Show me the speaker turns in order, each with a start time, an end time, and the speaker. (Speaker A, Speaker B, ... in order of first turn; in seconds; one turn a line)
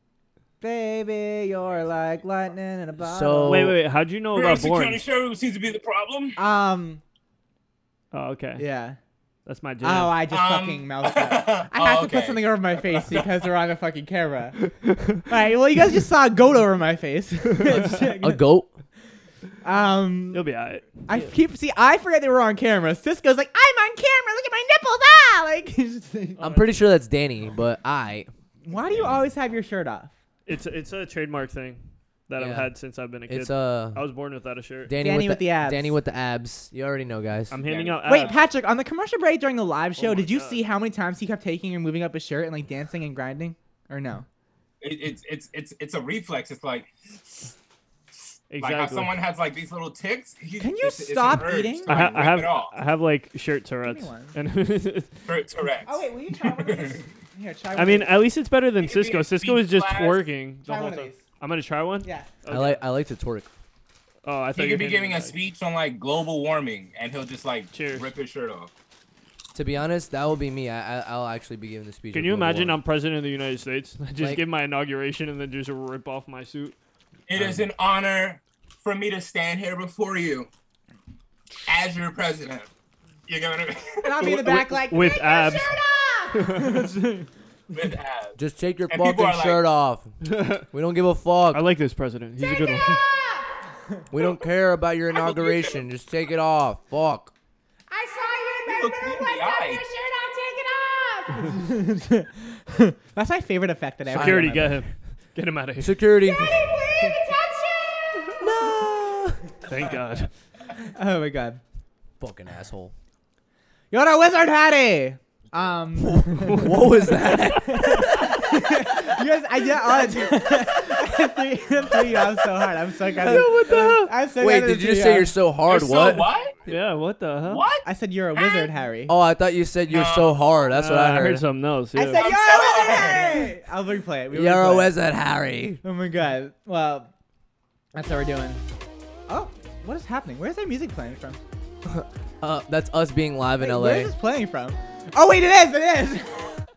Speaker A: 0.6-3.7
Speaker B: 3.0-3.8
Speaker C: 3.4-5.0
Speaker D: 4.3-6.4
Speaker A: 6.4-7.0
Speaker C: 8.1-8.7
Speaker A: 8.5-9.0
Speaker C: 9.4-10.2
Speaker A: 9.8-14.6
Speaker D: 10.3-13.5
Speaker A: 15.3-18.4
Speaker B: 18.2-18.7
Speaker A: 19.6-20.4
Speaker C: 20.3-21.2
Speaker A: 21.1-26.5
Speaker C: 26.4-26.7
Speaker B: 26.4-28.3
Speaker A: 28.6-30.1
Speaker D: 28.8-29.2
Speaker C: 30.4-34.9
Speaker B: 32.4-32.7
Speaker B: 33.3-34.1
Speaker B: 34.9-37.6
Speaker A: 35.0-36.0
Speaker C: 37.5-38.4
Speaker D: 37.6-38.4
Speaker A: 38.0-44.2
Speaker C: 40.0-40.6
Speaker D: 44.8-47.6
Speaker D: 48.1-52.8
Speaker C: 48.5-49.1
Speaker A: 50.6-52.0
Speaker C: 51.8-55.1
Speaker A: 53.8-54.4
Speaker D: 55.2-57.0
Speaker A: 55.9-58.1
Speaker C: 57.7-62.8
Speaker D: 58.8-60.2
Speaker A: 60.6-61.2
Speaker A: 62.0-62.3
Speaker B: 62.5-63.5
Speaker C: 64.2-65.3
Speaker D: 64.5-68.7
Speaker C: 67.7-68.1
Speaker B: 69.5-72.8
Speaker C: 72.1-76.7
Speaker B: 74.2-74.4
Speaker D: 77.3-80.5
Speaker B: 77.4-77.6
Speaker D: 81.7-82.7
Speaker D: 83.3-85.0
Speaker A: 84.0-87.3
Speaker C: 84.5-85.7
Speaker C: 86.3-86.8
Speaker D: 87.7-89.7
Speaker B: 88.4-90.2
Speaker C: 90.3-90.6
Speaker B: 90.7-91.6
Speaker C: 91.5-93.0
Speaker A: 92.4-93.5
Speaker B: 94.1-97.3
Speaker D: 94.2-94.4
Speaker D: 95.1-95.9
Speaker A: 97.9-104.8
Speaker D: 98.7-99.8
Speaker B: 104.1-104.6
Speaker C: 104.1-106.0
Speaker B: 105.8-106.7
Speaker A: 106.2-108.5
Speaker B: 108.4-109.4
Speaker C: 109.7-110.3
Speaker A: 110.9-111.6
Speaker B: 112.2-112.9
Speaker A: 113.9-116.9
Speaker B: 116.0-118.4
Speaker C: 116.5-116.8
Speaker A: 117.5-125.3
Speaker B: 123.2-126.3
Speaker C: 123.3-123.8
Speaker D: 125.7-126.6
Speaker C: 126.6-127.6
Speaker D: 127.5-128.7
Speaker A: 127.8-129.1
Speaker B: 129.1-131.4
Speaker D: 129.9-130.6
Speaker C: 130.7-132.3
Speaker A: 131.9-134.9
Speaker D: 132.1-133.5
Speaker B: 134.3-135.8
Speaker A: 135.8-137.1
Speaker A: 137.9-138.6
Speaker A: 139.3-141.4
Speaker B: 141.8-144.1
Speaker A: 143.6-146.6